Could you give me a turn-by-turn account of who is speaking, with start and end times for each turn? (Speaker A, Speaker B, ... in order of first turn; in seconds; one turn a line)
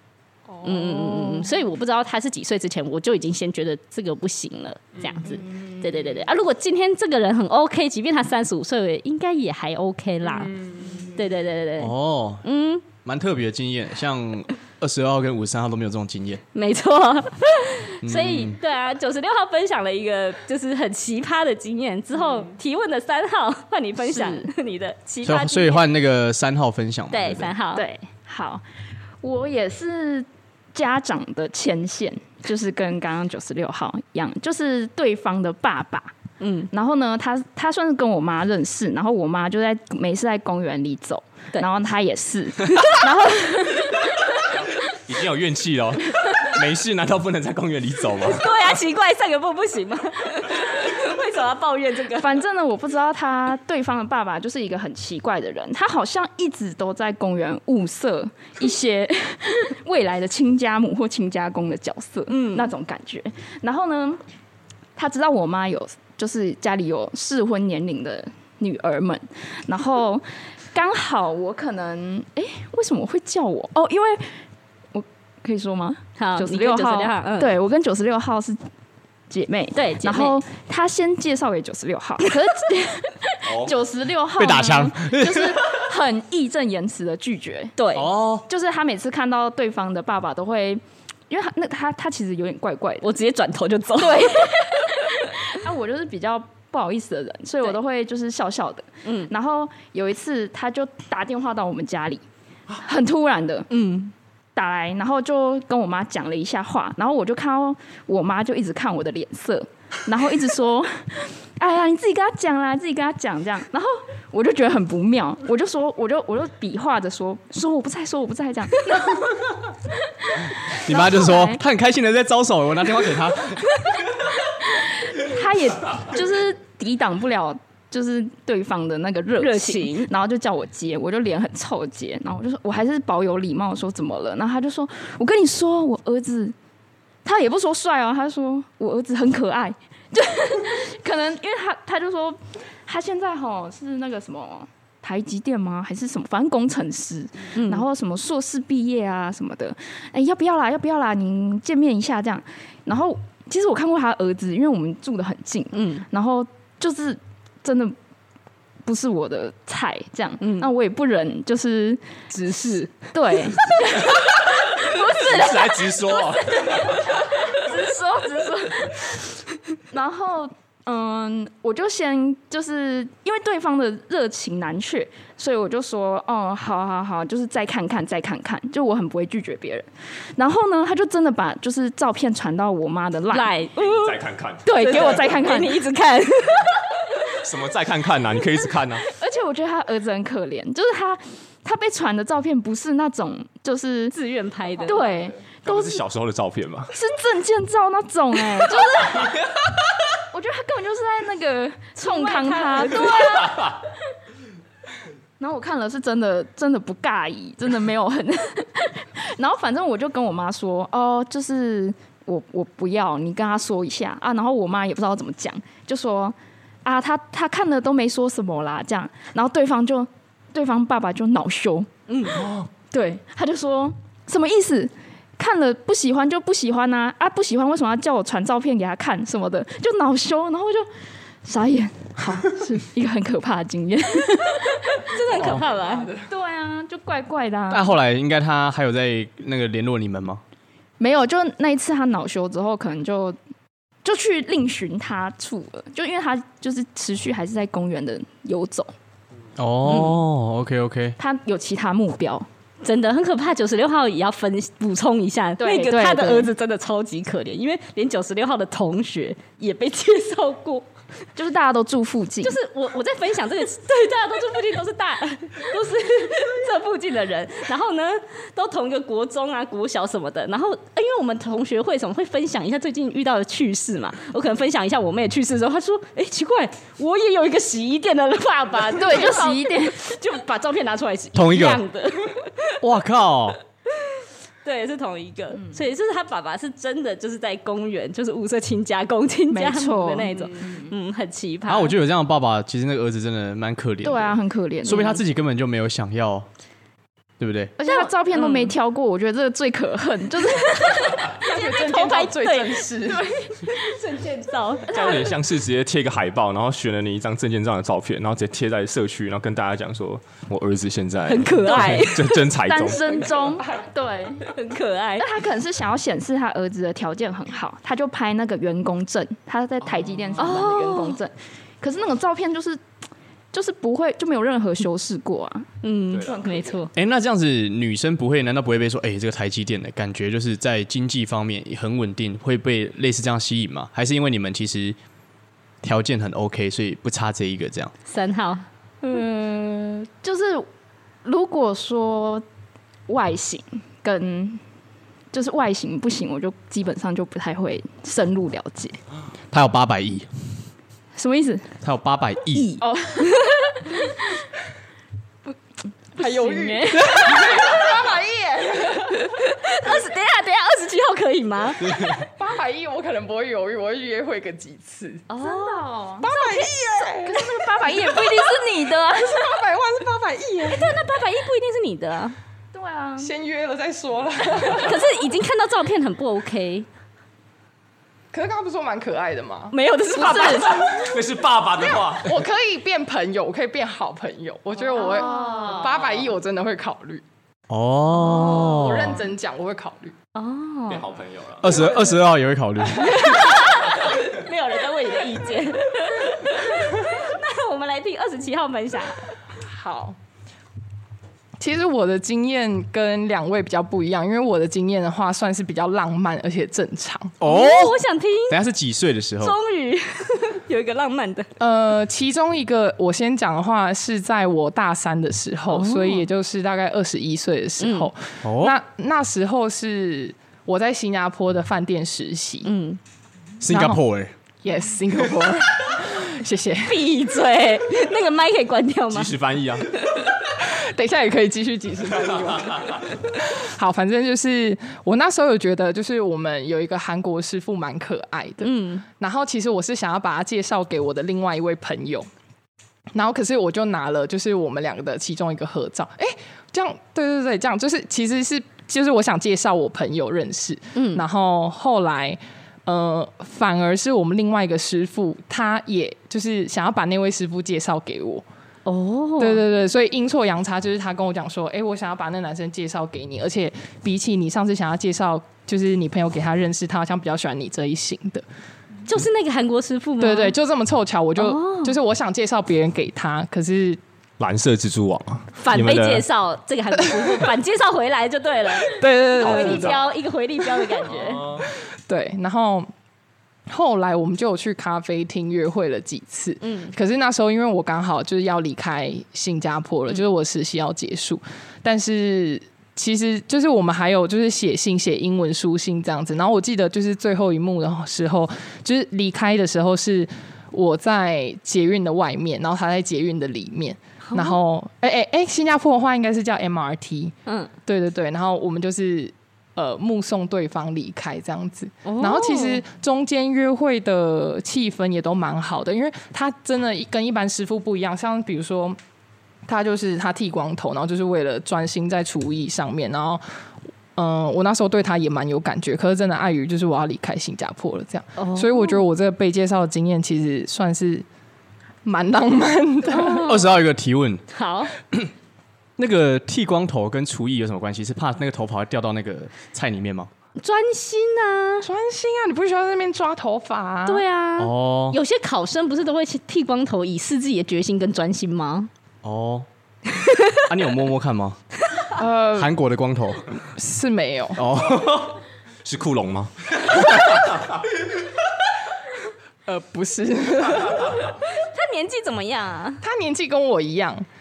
Speaker A: 0.6-12.9
Speaker B: 1.2-1.5
Speaker C: 11.8-12.4
Speaker C: 13.0-16.4
Speaker A: 16.5-25.9
Speaker C: 18.0-18.6
Speaker B: 24.0-24.5
Speaker C: 25.2-27.5
Speaker A: 27.1-27.8
Speaker B: 27.8-28.6
Speaker B: 29.2-36.1
Speaker A: 36.4-36.7
Speaker B: 36.7-44.4
Speaker D: 44.5-48.7
Speaker A: 48.2-52.4
Speaker B: 52.2-64.2
Speaker A: 62.3-62.7
Speaker B: 65.0-74.4
Speaker B: 74.9-78.6
Speaker A: 76.2-77.5
Speaker B: 79.3-87.7
Speaker A: 79.7-80.4
Speaker D: 83.5-83.8
Speaker C: 84.4-85.6
Speaker A: 87.8-88.1
Speaker C: 88.0-88.5
Speaker B: 88.5-93.1
Speaker A: 93.0-94.7
Speaker B: 94.0-103.7
Speaker A: 99.0-99.3
Speaker A: 103.7-104.1
Speaker B: 104.5-119.4
Speaker B: 120.2-121.6
Speaker C: 120.6-123.8
Speaker B: 124.5-136.6
Speaker A: 129.4-130.1
Speaker B: 137.2-158.0
Speaker A: 147.6-147.9
Speaker A: 155.7-156.1
Speaker B: 158.8-162.2
Speaker A: 160.4-160.7
Speaker A: 162.3-162.9
Speaker B: 163.1-169.3
Speaker D: 165.1-167.2
Speaker A: 167.5-168.7
Speaker B: 169.9-183.5
Speaker A: 183.3-184.2
Speaker D: 183.8-184.7
Speaker B: 184.7-185.8
Speaker A: 184.7-186.9
Speaker D: 187.3-189.1
Speaker B: 189.1-194.2
Speaker A: 194.1-195.1
Speaker B: 194.8-196.0
Speaker D: 195.6-196.9
Speaker B: 196.9-203.8
Speaker A: 202.0-203.7
Speaker D: 203.4-203.7
Speaker B: 205.4-221.9
Speaker A: 222.1-222.4
Speaker D: 222.4-222.7
Speaker B: 222.9-230.9
Speaker B: 231.4-235.1
Speaker A: 235.0-236.1
Speaker C: 235.3-235.6
Speaker E: 235.4-236.3
Speaker B: 236.3-238.0
Speaker C: 237.7-240.4
Speaker B: 241.0-243.4
Speaker B: 244.0-248.9
Speaker C: 249.6-251.2
Speaker A: 249.9-250.2
Speaker B: 251.2-252.5
Speaker A: 252.8-260.9
Speaker B: 255.6-256.5
Speaker B: 261.4-262.6
Speaker A: 262.4-282.8
Speaker B: 278.9-280.0
Speaker C: 281.4-281.8
Speaker C: 282.8-283.6
Speaker A: 283.9-291.9
Speaker B: 289.5-290.9
Speaker C: 291.7-296.5
Speaker B: 294.0-295.2
Speaker C: 297.4-297.8
Speaker B: 297.8-301.5
Speaker A: 297.9-298.7
Speaker A: 301.4-302.9
Speaker E: 301.5-303.3
Speaker B: 303.4-303.7
Speaker A: 303.7-305.0
Speaker D: 304.9-313.3
Speaker B: 304.9-305.2
Speaker A: 311.3-312.5
Speaker B: 312.6-314.4
Speaker A: 314.4-315.3
Speaker B: 315.2-322.8
Speaker A: 320.4-321.2
Speaker B: 323.5-325.7
Speaker A: 325.8-326.9
Speaker D: 326.1-326.5
Speaker B: 326.3-326.8
Speaker C: 326.9-335.0
Speaker C: 335.8-337.9
Speaker A: 338.1-338.7
Speaker B: 339.0-340.7
Speaker B: 341.2-342.4
Speaker B: 343.1-344.6
Speaker B: 345.3-349.0
Speaker C: 349.5-350.6
Speaker B: 351.1-351.7
Speaker C: 351.8-352.7
Speaker A: 352.5-353.6
Speaker B: 352.8-354.4
Speaker B: 356.2-357.9
Speaker E: 356.2-359.2
Speaker C: 357.0-357.3
Speaker A: 359.0-362.2
Speaker C: 361.9-362.1
Speaker E: 362.2-365.3
Speaker A: 365.3-367.0
Speaker B: 365.4-366.3
Speaker E: 366.2-367.5
Speaker B: 367.2-369.6
Speaker A: 368.0-368.3
Speaker E: 369.1-371.0
Speaker A: 370.6-372.4
Speaker B: 372.7-373.3
Speaker E: 373.2-375.0
Speaker A: 374.6-376.9
Speaker E: 378.3-381.1
Speaker A: 379.7-381.0
Speaker D: 380.9-382.4
Speaker E: 382.2-387.2
Speaker B: 384.9-386.0
Speaker A: 384.9-386.0
Speaker C: 387.7-389.2
Speaker A: 388.2-389.0
Speaker E: 388.2-390.1
Speaker A: 390.4-391.1
Speaker D: 390.9-391.9
Speaker C: 391.6-393.4
Speaker A: 393.0-399.3
Speaker E: 393.0-393.3
Speaker E: 399.6-400.2
Speaker E: 401.6-407.4
Speaker C: 407.4-409.6
Speaker A: 407.4-408.6
Speaker A: 409.4-411.5
Speaker E: 411.6-422.7
Speaker A: 415.7-416.3
Speaker A: 417.8-418.1
Speaker C: 418.4-418.8
Speaker A: 422.6-423.0
Speaker C: 423.6-424.3
Speaker E: 423.7-424.0
Speaker E: 424.6-427.1
Speaker A: 426.9-429.3
Speaker D: 429.1-429.9
Speaker E: 430.4-442.3
Speaker A: 438.6-439.1
Speaker E: 443.1-458.5
Speaker A: 450.9-451.2
Speaker A: 458.9-459.6
Speaker E: 459.4-468.4
Speaker A: 469.1-470.6
Speaker E: 470.2-474.0
Speaker A: 471.4-472.0
Speaker D: 474.4-476.3
Speaker A: 475.6-481.5
Speaker E: 478.9-480.1
Speaker D: 481.1-481.7
Speaker E: 481.7-482.9
Speaker E: 483.7-519.0
Speaker A: 486.6-486.9
Speaker A: 504.2-504.6
Speaker A: 507.5-507.7
Speaker A: 512.0-512.8
Speaker E: 519.7-523.4
Speaker E: 524.2-531.3
Speaker A: 528.4-529.1
Speaker E: 532.0-533.5
Speaker A: 533.1-533.7
Speaker C: 533.3-534.4
Speaker A: 534.5-534.9
Speaker C: 536.0-540.3
Speaker A: 540.6-541.9
Speaker E: 541.8-544.2
Speaker A: 544.1-548.9
Speaker C: 544.6-545.2
Speaker C: 549.2-549.7
Speaker A: 550.1-550.6
Speaker C: 550.7-551.6
Speaker E: 552.1-552.7
Speaker C: 552.6-553.5
Speaker E: 553.8-554.6
Speaker C: 554.6-555.4
Speaker D: 555.8-557.9
Speaker E: 559.7-561.4
Speaker A: 561.5-563.0
Speaker E: 563.0-564.3